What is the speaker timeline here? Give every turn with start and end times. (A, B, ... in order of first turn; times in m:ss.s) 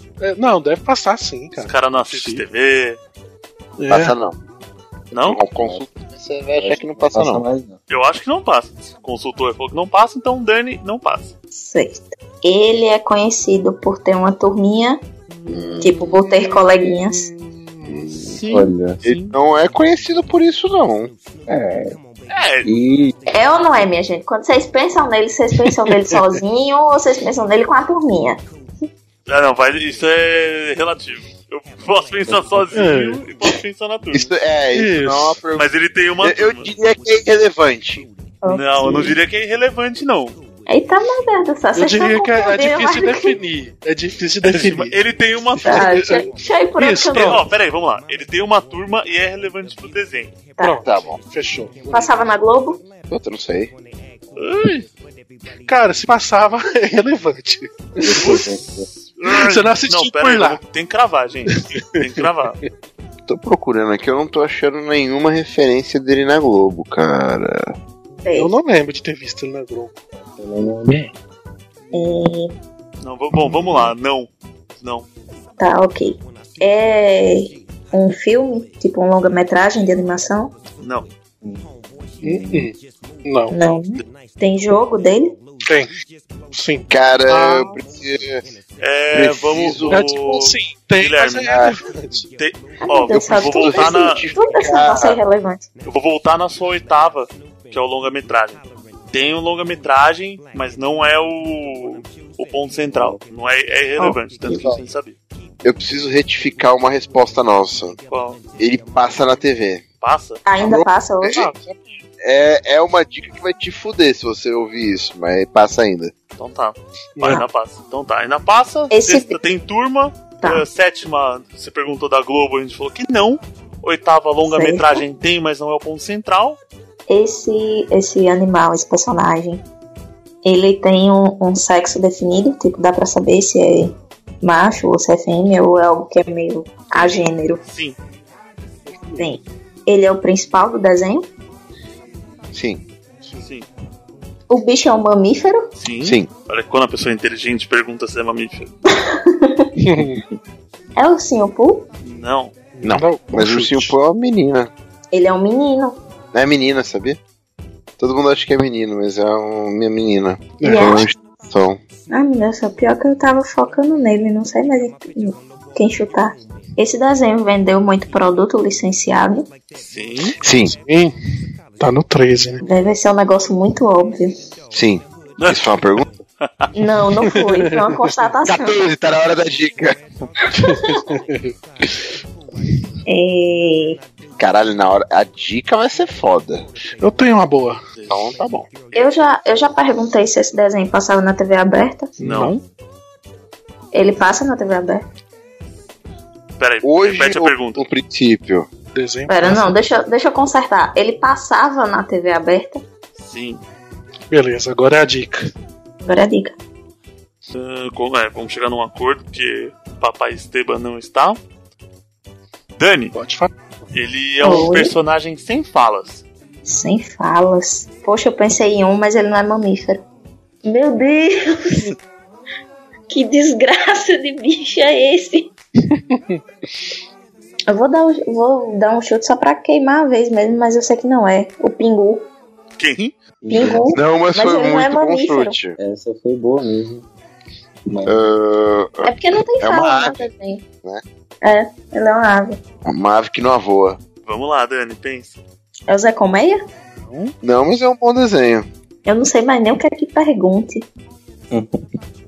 0:00.2-0:02.4 A
0:01.6-0:03.0 B
0:03.8-0:04.1 A
0:03.9-0:04.4 C
0:05.1-0:05.4 B
0:05.1-0:07.4 C
0:05.6-0:05.8 D
0:06.6-0:07.8 D
0:07.9-0:11.3 B
0:11.5-0:15.0 E
0:15.3-0:15.6 B
0:15.5-0:16.2 C
0:15.8-0:17.3 E
0:18.2-0:19.4 B
0:18.2-0:19.0 D
0:19.0-0:21.1 C
0:21.5-0:22.0 D
0:22.3-0:22.7 B
0:22.6-0:23.1 D
0:23.3-0:28.4 E
0:29.3-0:34.3 B
0:32.7-0:33.2 A
0:34.1-0:38.0 C
0:34.7-0:35.4 A
0:35.6-0:36.7 B
0:38.4-0:39.2 E
0:38.5-0:40.4 B
0:40.7-0:43.4 E
0:41.7-0:45.0 A
0:44.4-0:46.1 B
0:45.6-0:46.3 A
0:45.6-0:47.4 E
0:46.8-0:47.4 A
0:47.1-0:50.4 B
0:50.6-0:52.1 A
0:50.8-0:51.2 C
0:51.9-0:52.8 E
0:53.1-0:53.7 C
0:54.4-0:54.8 B
0:55.6-0:58.4 A
0:58.0-0:58.9 D
0:58.1-1:02.6 B
0:59.2-1:00.6 A
1:03.3-1:07.7 C
1:08.2-1:08.5 E
1:08.4-1:10.0 A
1:10.3-1:11.1 D
1:11.9-1:12.5 E
1:13.0-1:15.1 B
1:13.4-1:13.9 C
1:15.6-1:20.5 E
1:20.8-1:21.1 B
1:22.2-1:22.7 D
1:22.2-1:22.7 A
1:23.2-1:23.5 A
1:23.5-1:25.4 E
1:25.6-1:25.9 A
1:26.5-1:27.7 A
1:26.9-1:28.4 C
1:28.8-1:31.6 B
1:29.1-1:30.0 C
1:29.9-1:32.3 A
1:31.5-1:31.7 C
1:32.4-1:34.3 B
1:32.8-1:35.7 E
1:33.1-1:35.2 C
1:35.8-1:45.2 B
1:44.5-1:44.8 C
1:45.6-1:48.0 C
1:48.1-1:48.4 B
1:48.6-1:49.8 C
1:50.0-1:50.4 B
1:50.4-1:51.5 E
1:50.6-1:56.1 C
1:56.4-2:06.6 B
1:57.2-1:57.4 A
1:58.9-1:59.4 E
2:04.4-2:05.0 E
2:07.1-2:09.6 E
2:10.4-2:17.6 E
2:16.9-2:18.0 B
2:18.9-2:19.2 A
2:19.2-2:21.3 E
2:22.5-2:22.8 C
2:23.4-2:23.7 B
2:24.5-2:25.7 E
2:25.8-2:28.7 B
2:26.0-2:26.3 C
2:28.9-2:29.7 E
2:29.8-2:30.2 A
2:31.0-2:31.9 E
2:32.0-2:32.5 B
2:32.8-2:33.9 A
2:32.8-2:34.7 C
2:35.1-2:36.0 E
2:36.3-2:37.2 C
2:38.0-2:41.8 C
2:40.6-2:41.1 A
2:40.6-2:41.1 E
2:42.1-2:49.5 E
2:49.7-2:50.3 B
2:50.4-2:50.7 C
2:50.6-2:51.1 A
2:51.8-2:52.6 A
2:52.6-2:54.4 E
2:54.7-2:56.1 C
2:55.4-2:55.6 B
2:56.4-2:56.7 B
2:56.7-2:58.8 E
2:57.2-2:58.1 A
2:58.4-3:00.0 C
3:00.6-3:01.5 A
3:00.6-3:01.0 E
3:03.0-3:04.0 E
3:04.4-3:06.6 C
3:07.0-3:07.8 A
3:08.0-3:09.1 B
3:08.1-3:08.7 C
3:08.9-3:12.1 E
3:12.2-3:12.6 A
3:12.2-3:12.6 B
3:13.9-3:15.0 E
3:16.6-3:17.9 B
3:16.8-3:18.7 C
3:18.9-3:19.7 A
3:19.3-3:22.8 E
3:23.2-3:23.6 B
3:24.3-3:25.5 A
3:26.0-3:26.5 E
3:27.5-3:31.4 B
3:32.8-3:33.1 B
3:33.1-3:33.5 A
3:33.9-3:36.2 B
3:34.4-3:34.9 E
3:36.6-3:40.0 E
3:40.6-3:42.0 E
3:43.1-3:45.5 E
3:47.7-3:52.3 E
3:52.8-3:53.2 B
3:53.4-3:53.9 D
3:53.5-3:55.6 E
3:53.9-3:55.8 C
3:55.8-3:57.1 D
3:57.9-3:58.2 D
3:58.0-3:59.1 C
3:59.0-4:00.6 E
3:59.6-4:00.2 C
4:01.4-4:02.6 E
4:02.8-4:04.0 C
4:04.2-4:05.4 B
4:05.9-4:06.6 E
4:07.0-4:07.3 B
4:07.4-4:08.6 C
4:09.0-4:10.9 E
4:11.5-4:11.8 D